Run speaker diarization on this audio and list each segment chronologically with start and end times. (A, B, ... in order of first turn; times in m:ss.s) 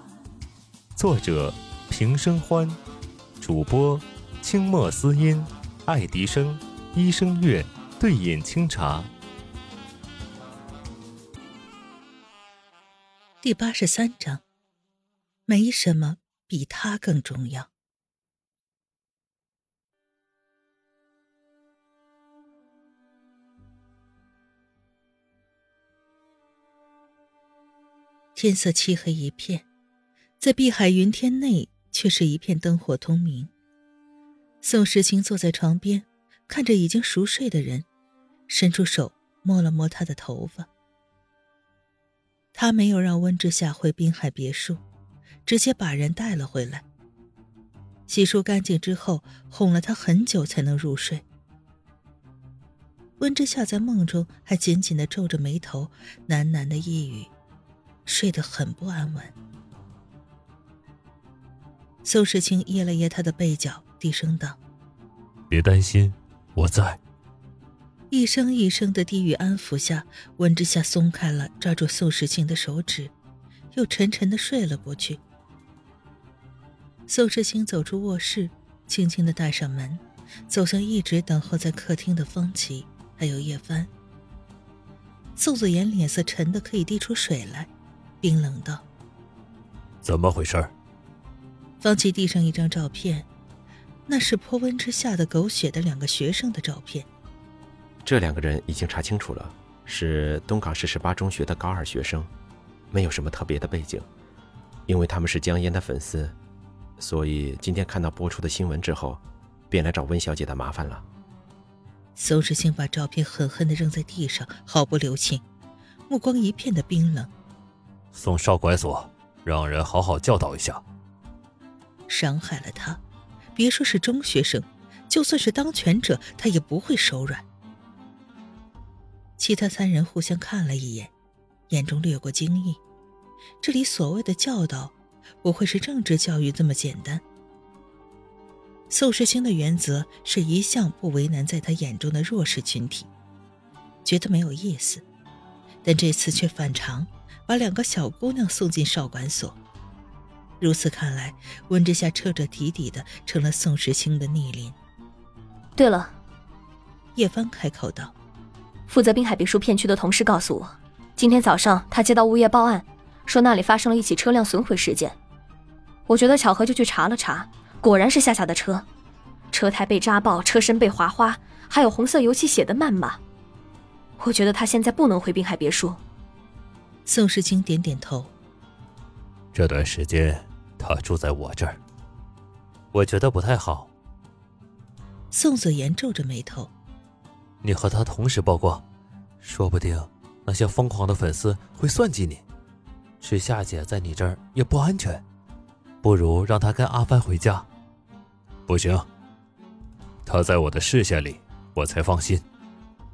0:01.0-0:02.8 A
0:03.4-0:09.1 A
0:13.4-0:14.4 B
0:15.5-0:17.7 B
0:28.3-0:29.6 B
0:30.4-0:33.5 B
0:34.6-0:37.8 B
0:38.5-0:40.7 B
0:42.5-0:44.8 B
0:45.4-0:46.8 B
0:48.1-0:51.2 B
0:53.2-0:57.3 B
0:58.0-0:59.3 B
1:02.0-1:04.6 B
1:05.5-1:07.0 A
1:08.1-1:13.1 B
1:13.7-1:15.2 B
1:17.1-1:23.9 B
1:25.4-1:27.7 B
1:28.2-1:28.8 B
1:30.0-1:30.7 A
1:31.8-1:33.3 B
1:34.1-1:37.1 B
1:38.0-1:42.3 C
1:42.9-1:44.1 C
1:44.9-1:46.3 C
1:47.0-1:51.0 C
1:52.2-1:55.4 B
1:56.1-1:57.3 B
1:58.1-2:00.8 A
2:02.1-2:03.0 B
2:03.6-2:07.4 B
2:09.4-2:11.1 B
2:11.7-2:12.8 B
2:13.6-2:17.2 B
2:18.9-2:23.1 B
2:24.0-2:25.0 B
2:25.8-2:29.6 B
2:30.6-2:34.8 B
2:35.8-2:36.2 D
2:37.2-2:38.1 B
2:38.9-2:45.2 D
2:46.1-2:48.8 D
2:49.5-2:53.2 D
2:54.2-2:56.0 D
2:57.0-2:58.3 B
2:59.5-3:01.8 A
3:02.9-3:03.9 A
3:05.3-3:06.7 B
3:07.6-3:08.8 A
3:09.4-3:12.4 A
3:13.2-3:15.2 A
3:16.0-3:17.6 A
3:18.7-3:19.1 A
3:20.2-3:22.4 A